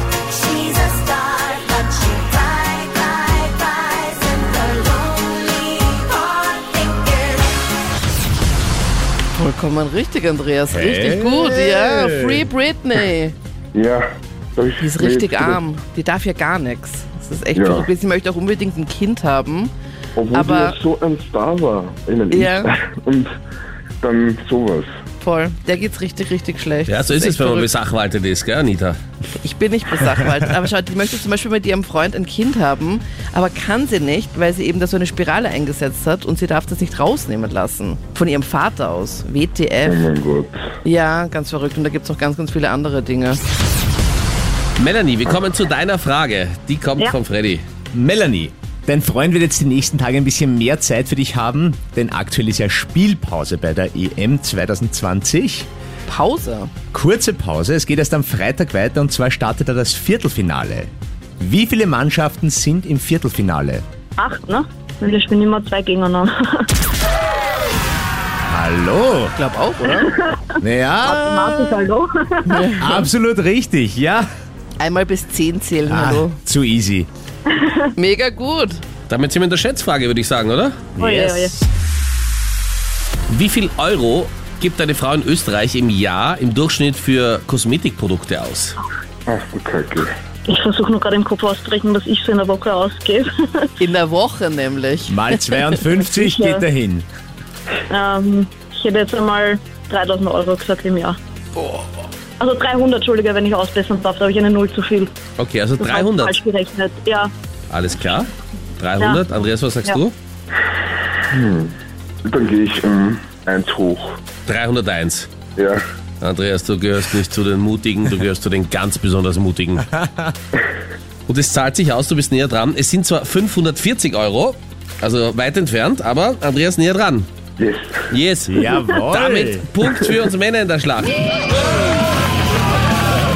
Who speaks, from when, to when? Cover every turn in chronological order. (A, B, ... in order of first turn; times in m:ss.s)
0:00.4-0:07.1 A
0:09.3-0:13.4 B
0:10.7-0:12.5 C
0:13.7-0:15.6 D
0:14.8-0:19.7 B
0:17.6-0:17.9 D
0:20.2-0:23.3 D
0:20.3-0:20.8 B
0:22.3-0:22.8 B
0:24.0-0:24.9 D
0:25.2-0:27.7 B
0:26.9-0:29.0 E
0:29.4-0:40.0 B
0:39.8-0:40.6 D
0:40.8-0:43.4 B
0:44.8-0:47.6 E
0:47.9-0:55.7 C
0:56.1-0:56.7 B
0:56.9-1:03.8 C
1:04.2-1:06.7 F
1:08.5-1:09.4 C
1:09.4-1:10.2 B
1:09.8-1:12.8 F
1:10.6-1:11.8 C
1:12.5-1:13.0 B
1:12.8-1:14.3 C
1:14.8-1:16.4 B
1:15.8-1:17.1 C
1:17.5-1:17.9 F
1:18.0-1:18.8 B
1:19.1-1:20.9 E
1:21.0-1:21.5 C
1:21.0-1:21.5 F
1:23.3-1:28.8 E
1:29.3-1:30.1 D
1:30.5-1:33.7 F
1:33.8-1:35.7 B
1:35.1-1:37.1 C
1:36.0-1:36.7 F
1:37.9-1:41.2 F
1:42.4-1:45.1 F
1:45.4-1:46.4 E
1:45.8-1:47.3 F
1:47.7-1:50.2 E
1:49.0-1:49.2 F
1:51.3-1:54.2 D
1:54.5-1:55.3 E
1:55.6-1:55.8 D
1:56.2-1:59.9 E
1:59.9-2:00.3 C
2:01.3-2:07.3 E
2:07.6-2:08.0 D
2:08.1-2:11.1 E
2:08.5-2:09.7 C